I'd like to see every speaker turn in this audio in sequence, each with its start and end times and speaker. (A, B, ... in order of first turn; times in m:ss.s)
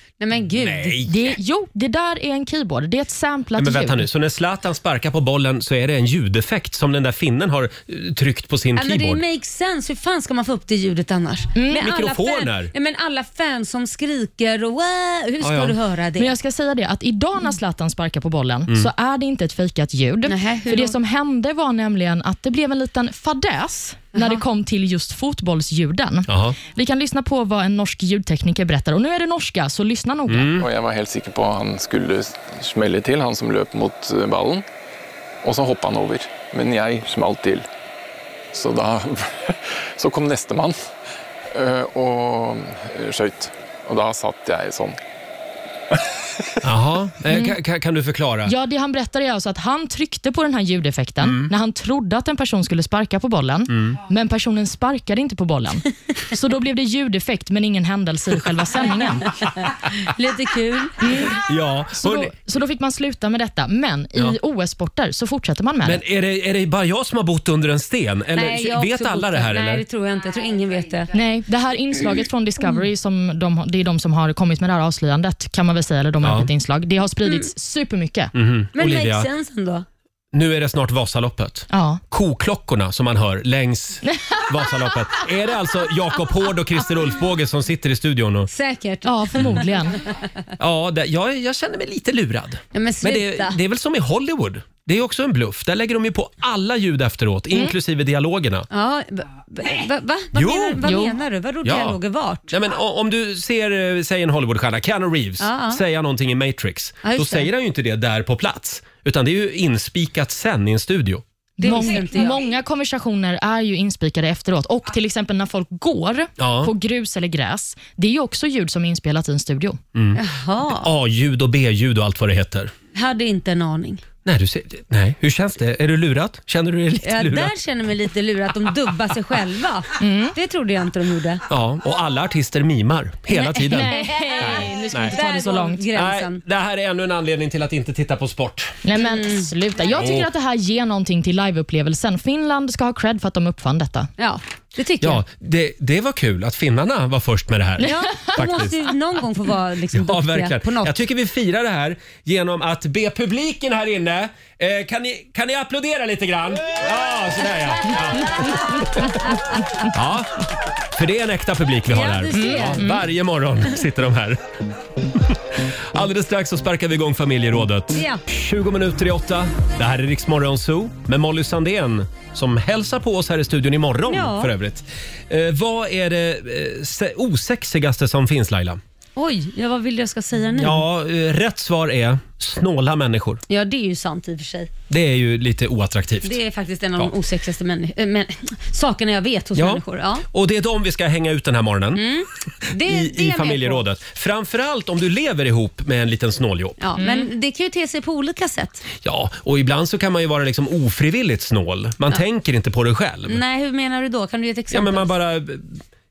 0:00.2-0:01.0 A
0:00.6-0:01.3 B
0:01.0-0:04.1 C
0:03.6-0:09.2 B
0:08.8-0:16.3 A
0:11.5-0:11.9 C
0:11.7-0:12.7 B
0:15.4-0:15.7 B
0:16.2-0:30.5 C
0:20.3-0:20.9 A
0:24.1-0:24.4 A
0:26.3-0:26.6 B
0:30.3-0:30.6 B
0:30.6-0:34.6 D
0:35.4-0:37.7 D
0:38.5-0:40.8 D
0:41.5-0:45.0 D
0:46.6-0:48.5 B
0:47.3-0:47.6 C
0:48.4-0:59.3 C
0:51.2-0:51.5 B
0:53.7-0:54.0 B
0:59.9-1:01.1 A
1:01.0-1:01.4 C
1:01.4-1:02.3 B
1:01.9-1:06.0 C
1:05.8-1:09.8 B
1:08.3-1:11.1 A
1:11.1-1:18.3 C
1:16.2-1:16.5 B
1:18.3-1:19.3 B
1:18.8-1:19.8 A
1:20.3-1:28.5 B
1:21.7-1:22.0 C
1:24.0-1:24.4 C
1:28.5-1:29.7 A
1:29.0-1:30.0 C
1:30.6-1:38.7 B
1:32.7-1:33.6 A
1:38.7-1:42.5 A
1:40.3-1:40.9 B
1:40.8-1:41.2 C
1:41.6-1:42.0 B
1:42.5-1:51.2 B
1:45.4-1:45.8 A
1:47.0-1:47.5 A
1:51.6-1:52.4 A
1:51.6-1:59.8 C
1:56.4-1:56.7 B
1:59.9-2:02.7 B
2:00.2-2:00.9 A
2:02.9-2:04.0 A
2:04.2-2:07.5 B
2:07.0-2:11.4 A
2:10.0-2:10.4 C
2:11.5-2:15.3 B
2:13.3-2:16.4 A
2:13.7-2:15.8 C
2:15.9-2:18.8 B
2:18.8-2:24.1 C
2:19.0-2:19.5 A
2:19.9-2:20.3 B
2:24.2-2:25.2 A
2:25.0-2:28.8 B
2:27.8-2:31.0 A
2:29.9-2:44.4 B
2:41.9-2:42.8 A
2:42.3-2:43.0 C
2:45.3-2:58.8 B
2:47.9-2:48.2 A
2:54.1-2:54.5 A
2:59.2-3:00.8 A
3:00.6-3:03.4 B
3:03.5-3:04.7 A
3:04.9-3:06.4 B
3:06.2-3:10.2 A
3:09.6-3:12.0 B
3:11.9-3:13.8 A
3:12.8-3:16.8 B
3:16.8-3:18.8 A
3:17.0-3:17.3 C
3:19.0-3:23.4 B
3:23.3-3:25.1 A
3:24.7-3:25.8 B